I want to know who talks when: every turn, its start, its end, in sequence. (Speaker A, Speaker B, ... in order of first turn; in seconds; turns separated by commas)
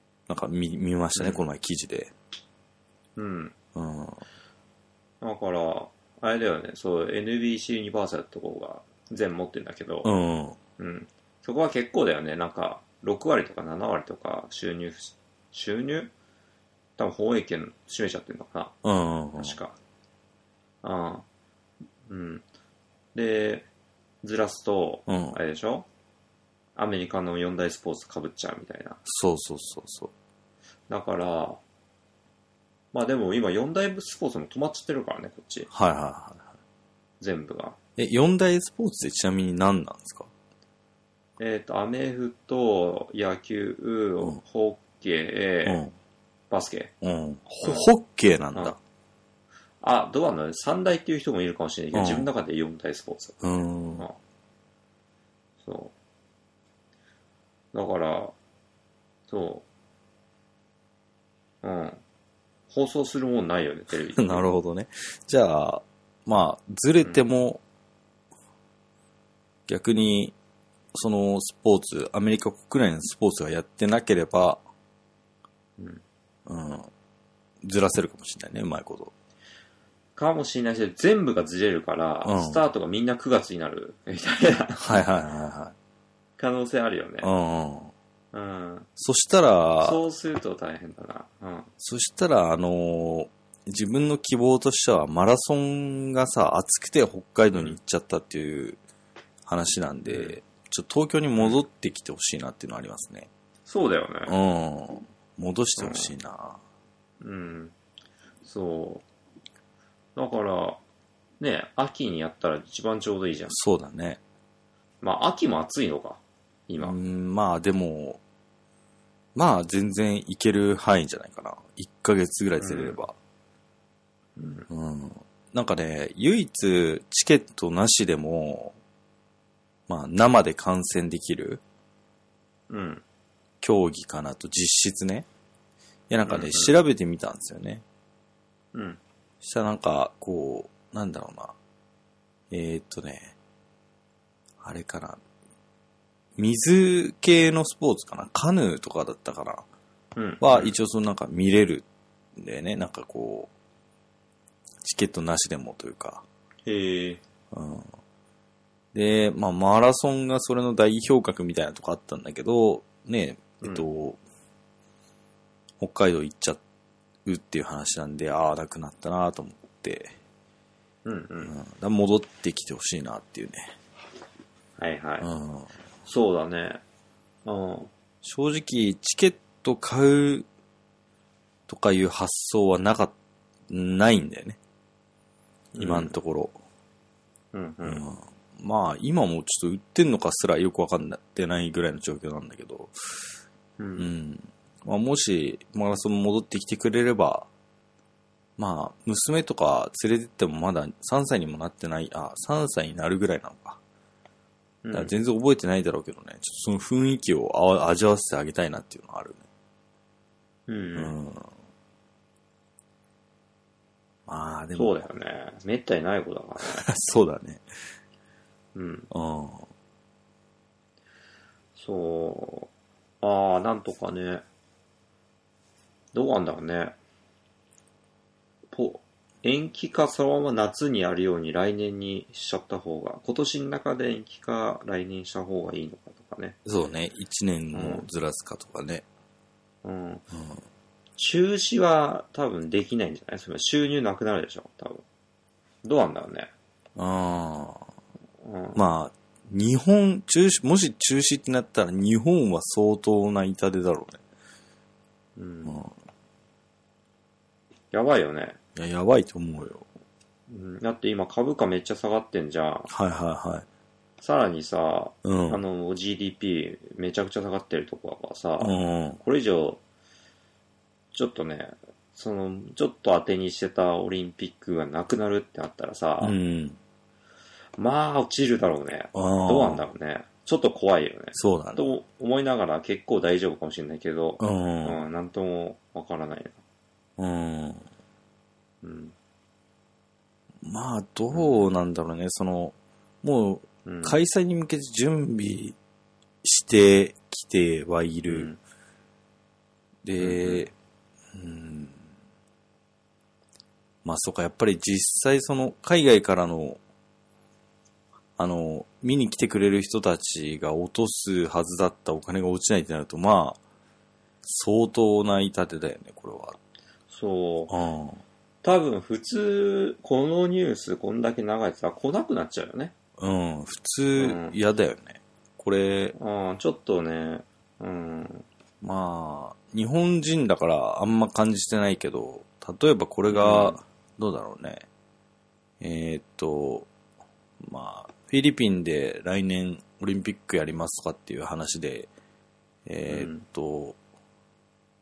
Speaker A: 0.3-2.1, Speaker B: 1.1-1.4, Speaker B: 3.1-3.5, Speaker A: 3.7-4.2, Speaker B: 5.2-10.1, Speaker A: 10.0-10.6, Speaker B: 10.8-16.1, Speaker B: 17.0-18.7, Speaker A: 18.8-19.6, Speaker B: 19.4-19.8, Speaker B: 20.8-21.2, Speaker B: 22.1-22.4, Speaker B: 23.1-23.7, Speaker B: 24.2-25.9, Speaker A: 25.1-25.4, Speaker B: 26.8-29.0, Speaker A: 29.1-30.1, Speaker B: 30.9-31.6, Speaker B: 32.9-35.7, Speaker A: 35.7-36.5, Speaker B: 37.2-37.8, Speaker A: 38.0-40.3, Speaker B: 41.4-45.8, Speaker A: 45.6-45.9, Speaker B: 46.5-46.9, Speaker A: 47.0-48.8, Speaker B: 49.8-53.4, Speaker A: 51.9-52.3, Speaker A: 53.4-54.1, Speaker B: 55.6-55.9, Speaker B: 57.7-58.3, Speaker B: 59.3-59.6, Speaker B: 61.6-62.0, Speaker B: 62.7-64.5, Speaker A: 64.1-67.6, Speaker A: 69.7-70.3, Speaker A: 70.9-74.6, Speaker B: 75.8-76.0, Speaker A: 76.5-76.9, Speaker A: 77.6-79.1, Speaker B: 80.2-84.8, Speaker A: 82.2-82.6, Speaker A: 84.7-85.7, Speaker B: 86.4-87.3, Speaker A: 87.2-87.9, Speaker B: 88.3-88.9, Speaker A: 89.0-90.0, Speaker B: 89.8-91.7, Speaker A: 91.8-98.8, Speaker A: 99.5-103.3, Speaker B: 100.0-100.4, Speaker B: 103.7-104.3, Speaker A: 104.3-106.6, Speaker B: 105.8-106.1, Speaker B: 107.2-107.7, Speaker B: 108.4-109.0, Speaker B: 110.2-110.8, Speaker B: 111.4-113.5, Speaker A: 113.5-114.2, Speaker B: 115.0-117.0, Speaker A: 116.8-118.2, Speaker A: 119.3-123.1, Speaker B: 122.6-123.0, Speaker B: 124.3-124.7, Speaker A: 124.7-128.8, Speaker A: 129.9-131.6, Speaker B: 132.7-133.0, Speaker A: 133.6-135.3, Speaker A: 136.1-137.8, Speaker B: 136.2-136.7, Speaker B: 138.7-139.0, Speaker A: 139.4-141.5, Speaker A: 142.5-143.3, Speaker A: 144.6-145.2, Speaker A: 146.4-149.6, Speaker B: 150.1-150.7, Speaker A: 150.4-151.8, Speaker A: 152.3-153.5, Speaker A: 154.8-156.2, Speaker B: 156.6-157.2, Speaker A: 157.5-157.9, Speaker A: 158.9-164.2, Speaker B: 163.6-163.9, Speaker A: 165.8-166.6, Speaker A: 167.2-170.1, Speaker B: 171.0-171.5, Speaker A: 171.4-173.7, Speaker B: 174.8-175.3, Speaker A: 175.2-175.7, Speaker B: 176.1-176.8, Speaker B: 177.4-177.9, Speaker A: 178.2-180.5, Speaker A: 181.7-183.1, Speaker A: 183.7-184.6, Speaker B: 185.7-186.1, Speaker A: 185.8-186.5, Speaker B: 187.5-188.0, Speaker A: 187.8-193.2, Speaker B: 193.8-194.1, Speaker A: 194.0-197.5, Speaker A: 198.6-203.8, Speaker B: 204.8-205.1, Speaker A: 204.9-209.4, Speaker B: 210.7-211.2, Speaker A: 210.9-211.5, Speaker A: 214.3-215.1, Speaker B: 214.8-216.8, Speaker A: 216.6-217.6, Speaker B: 218.7-219.1, Speaker A: 219.1-219.7, Speaker B: 221.7-224.4, Speaker B: 226.1-226.9, Speaker B: 228.7-236.6, Speaker A: 236.6-239.0, Speaker B: 237.7-238.1, Speaker B: 239.8-240.2, Speaker A: 240.3-240.6, Speaker B: 241.2-245.0, Speaker B: 245.8-246.5, Speaker A: 246.9-247.8, Speaker B: 248.4-248.8, Speaker A: 248.7-254.2, Speaker B: 255.3-255.8, Speaker A: 255.7-255.9, Speaker B: 257.9-258.6, Speaker A: 258.8-259.9, Speaker B: 260.5-262.9, Speaker A: 262.9-263.6, Speaker B: 264.2-269.8, Speaker A: 265.2-265.6, Speaker A: 268.6-269.2, Speaker B: 271.1-276.4, Speaker A: 276.2-276.8, Speaker B: 277.8-286.6, Speaker A: 279.1-279.9, Speaker A: 281.3-281.9, Speaker A: 284.4-285.0, Speaker A: 287.2-287.9, Speaker B: 288.8-289.1, Speaker A: 290.6-295.8, Speaker B: 291.3-291.7, Speaker B: 293.8-294.2, Speaker A: 296.4-298.5, Speaker B: 298.3-298.6, Speaker A: 300.0-300.7, Speaker B: 300.2-300.7, Speaker A: 301.3-302.0, Speaker A: 304.0-306.8, Speaker A: 308.4-313.6, Speaker A: 314.4-316.6, Speaker B: 317.1-317.7, Speaker A: 317.7-318.2, Speaker B: 318.6-322.9, Speaker A: 323.2-326.1, Speaker B: 324.1-324.6, Speaker B: 326.1-328.4, Speaker A: 328.8-334.9, Speaker B: 333.3-333.8, Speaker A: 335.8-336.9, Speaker A: 337.6-342.1, Speaker A: 342.9-344.0, Speaker B: 343.1-343.4